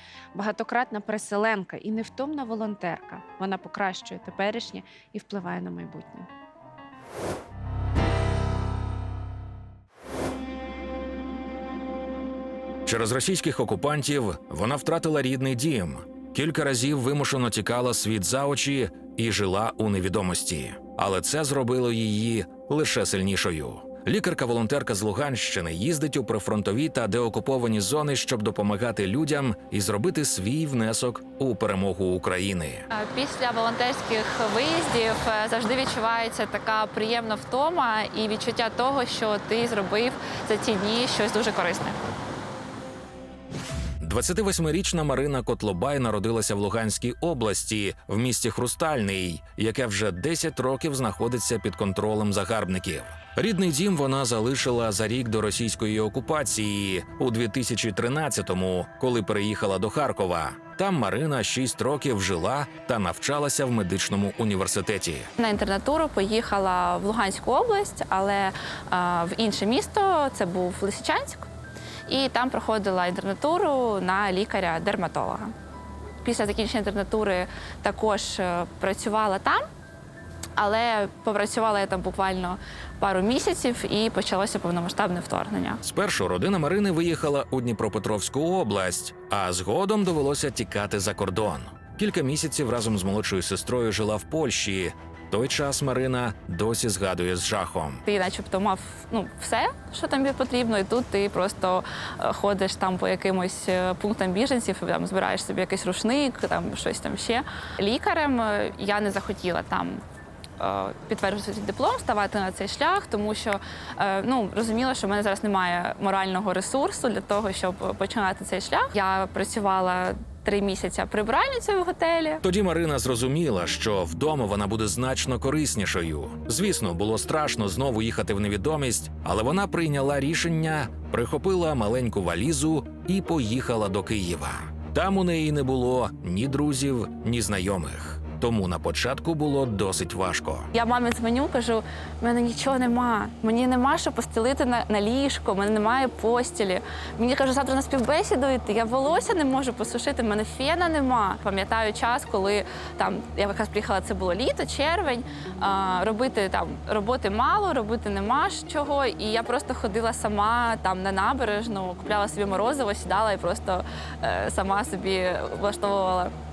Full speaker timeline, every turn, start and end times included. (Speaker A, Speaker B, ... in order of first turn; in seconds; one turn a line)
Speaker A: 0.3-6.3
Speaker B: 12.9-32.9
Speaker C: 32.9-42.0
Speaker B: 44.0-65.3
Speaker C: 65.4-71.5
Speaker C: 72.1-75.5
Speaker C: 76.2-79.7
Speaker C: 80.6-85.8
Speaker B: 85.8-98.0
Speaker C: 98.0-110.0
Speaker C: 110.6-122.4
Speaker B: 122.4-140.7
Speaker C: 140.7-166.3